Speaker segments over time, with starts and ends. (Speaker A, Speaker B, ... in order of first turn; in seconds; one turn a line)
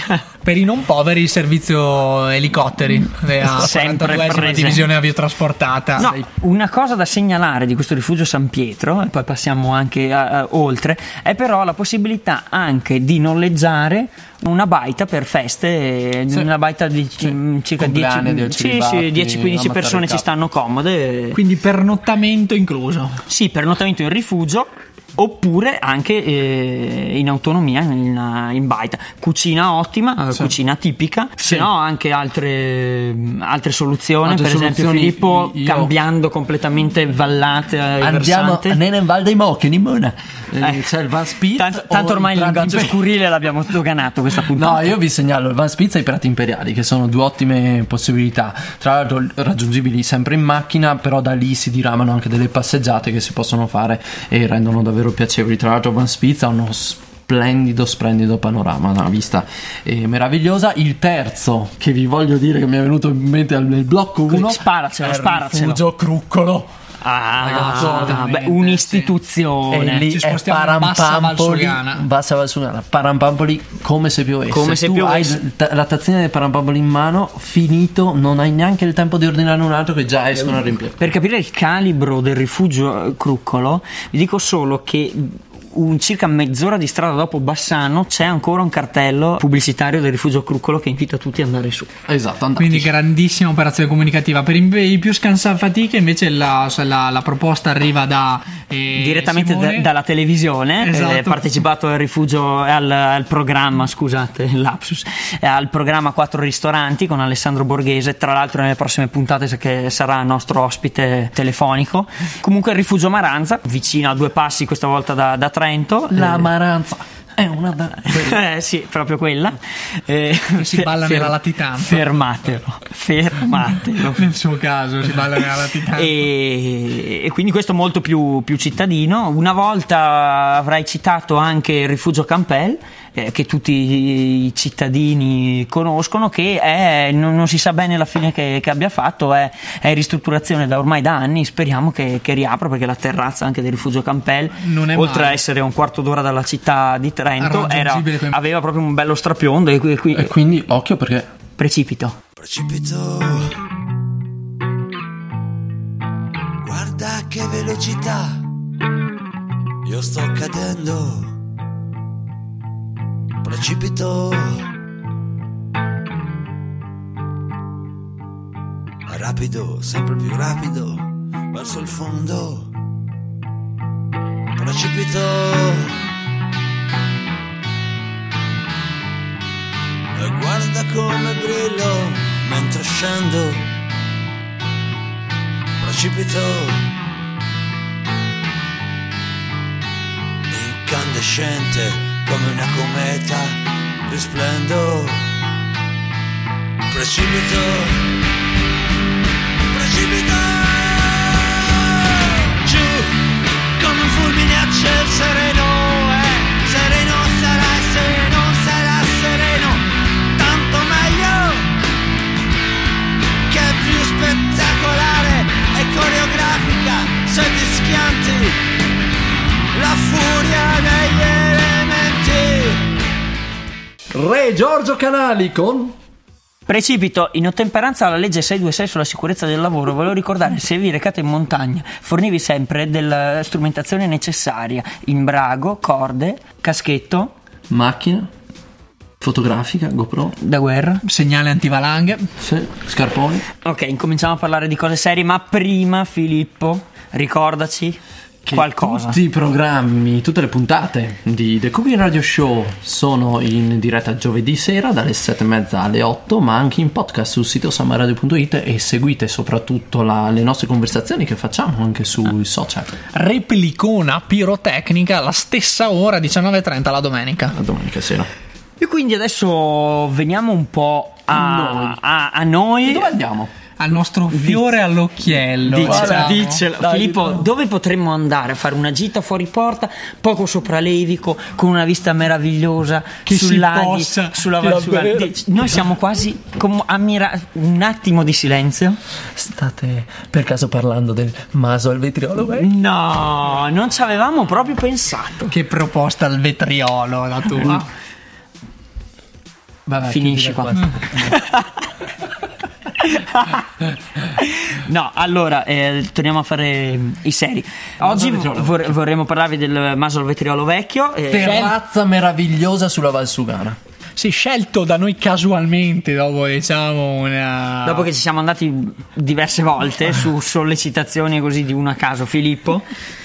Speaker A: 0.4-6.1
Speaker B: 3.4-4.9
Speaker B: 6.0-21.4
Speaker C: 6.0-6.3
Speaker C: 17.2-20.3
Speaker A: 21.3-23.2
Speaker B: 23.3-38.8
Speaker C: 34.2-36.0
Speaker C: 38.0-43.0
Speaker B: 40.6-40.9
Speaker B: 41.5-45.0
Speaker C: 44.4-66.7
Speaker B: 64.3-65.8
Speaker B: 67.0-70.1
Speaker C: 67.4-68.2
Speaker A: 67.5-69.1
Speaker C: 69.7-81.0
Speaker A: 70.0-72.0
Speaker B: 74.5-75.4
Speaker B: 80.4-91.9
Speaker C: 92.1-92.9
Speaker A: 92.6-99.9
Speaker B: 99.0-116.5
Speaker A: 100.8-101.5
Speaker C: 116.1-118.4
Speaker B: 118.1-124.3
Speaker A: 120.6-122.0
Speaker A: 124.1-126.2
Speaker B: 126.0-150.3
Speaker A: 144.6-145.4
Speaker A: 147.4-148.4
Speaker C: 150.1-151.3
Speaker B: 151.6-152.2
Speaker D: 152.4-153.5
Speaker D: 156.6-158.4
Speaker D: 159.8-161.3
Speaker D: 163.4-164.7
Speaker D: 169.1-172.7
Speaker D: 174.6-176.0
Speaker D: 180.1-183.7
Speaker D: 185.8-186.9
Speaker D: 190.5-195.3
Speaker D: 196.9-198.2
Speaker D: 199.7-203.2
Speaker D: 203.8-211.7
Speaker D: 213.5-218.6
Speaker D: 219.7-222.8
Speaker C: 224.1-225.9
Speaker B: 226.7-237.3
Speaker C: 237.7-238.3
Speaker C: 239.2-240.3
Speaker B: 240.4-241.0
Speaker A: 241.1-242.2
Speaker C: 242.4-243.4
Speaker B: 243.6-248.0
Speaker C: 248.4-262.9
Speaker B: 248.5-249.2
Speaker A: 263.1-267.6
Speaker C: 267.5-268.3
Speaker B: 268.8-273.1
Speaker C: 271.3-272.0
Speaker C: 272.9-273.5
Speaker A: 273.8-276.6
Speaker B: 274.3-274.7
Speaker B: 275.7-289.0
Speaker C: 275.8-277.5
Speaker A: 283.2-284.9
Speaker C: 284.6-285.4
Speaker C: 289.4-292.7
Speaker B: 292.6-295.5
Speaker A: 295.5-297.9
Speaker C: 299.9-301.4
Speaker B: 300.1-301.7
Speaker B: 303.0-303.7
Speaker B: 304.4-311.6
Speaker C: 308.0-309.0
Speaker C: 311.3-313.8
Speaker A: 311.4-311.8
Speaker A: 314.2-318.1
Speaker B: 317.9-322.9